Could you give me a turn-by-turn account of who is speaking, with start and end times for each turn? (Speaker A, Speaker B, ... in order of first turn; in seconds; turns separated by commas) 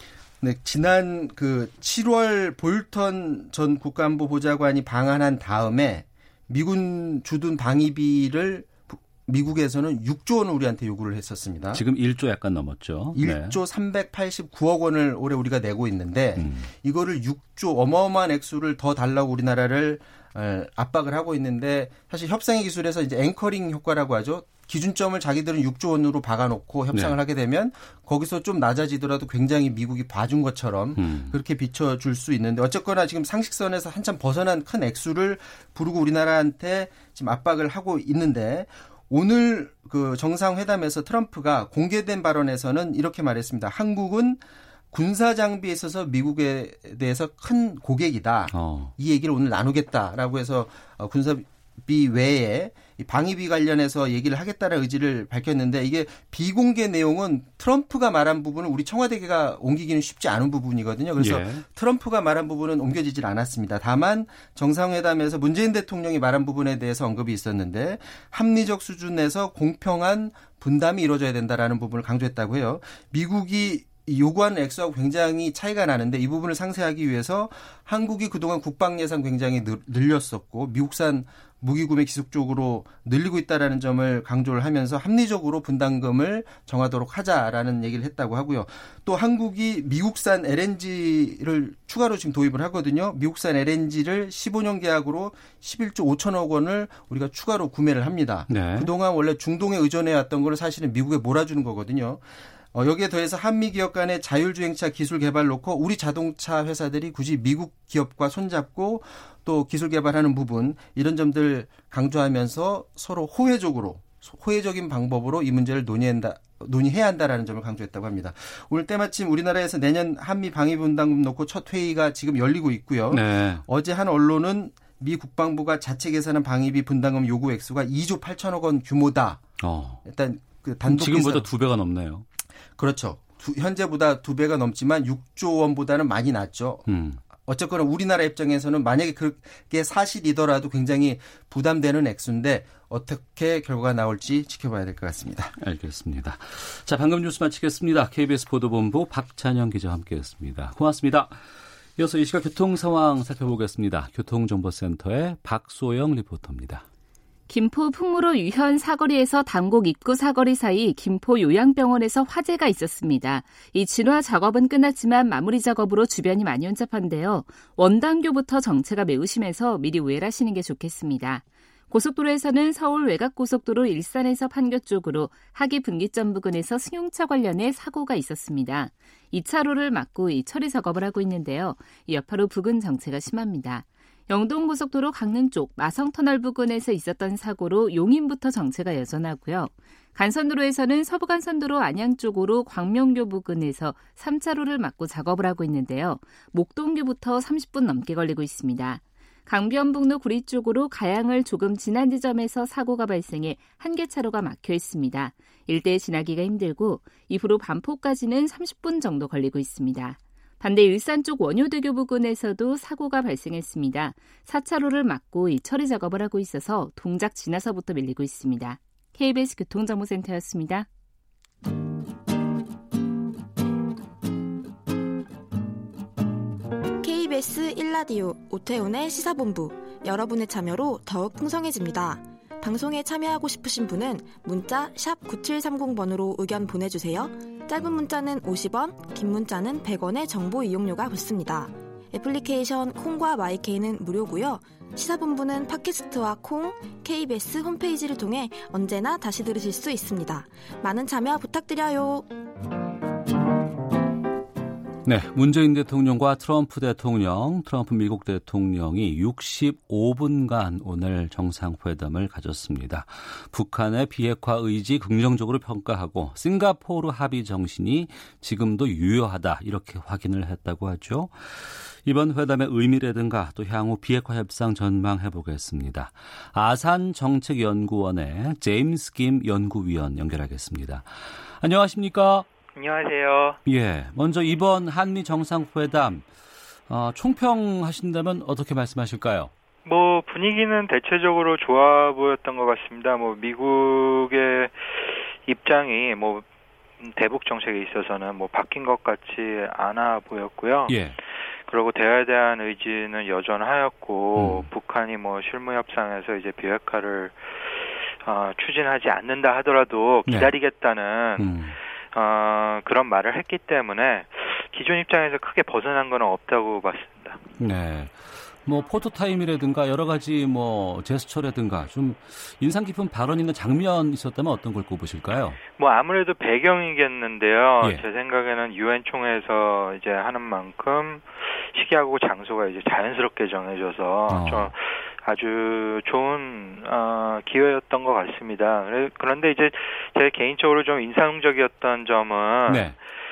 Speaker A: 0.4-11.8, Speaker B: 11.7-13.6, Speaker A: 13.2-102.2, Speaker B: 16.4-16.7, Speaker B: 31.0-31.4, Speaker B: 48.5-48.9, Speaker B: 61.2-61.6, Speaker B: 98.5-98.9, Speaker A: 102.7-129.4, Speaker B: 123.1-123.7, Speaker B: 129.6-130.0, Speaker A: 130.1-131.5, Speaker B: 130.9-132.2, Speaker A: 132.8-145.5, Speaker B: 136.9-137.2, Speaker B: 145.6-151.4, Speaker B: 152.0-156.8, Speaker C: 157.5-220.9, Speaker D: 227.0-252.3, Speaker B: 255.1-282.5, Speaker E: 282.8-283.6, Speaker B: 283.7-286.3, Speaker B: 286.9-289.5, Speaker E: 289.9-296.4, Speaker E: 297.0-301.0, Speaker B: 300.9-301.2, Speaker E: 301.7-311.6, Speaker B: 304.4-304.7, Speaker B: 310.3-310.5, Speaker B: 311.4-311.8, Speaker E: 312.1-317.4, Speaker B: 317.6-325.6, Speaker E: 325.8-342.9, Speaker B: 334.3-334.7, Speaker B: 342.7-343.0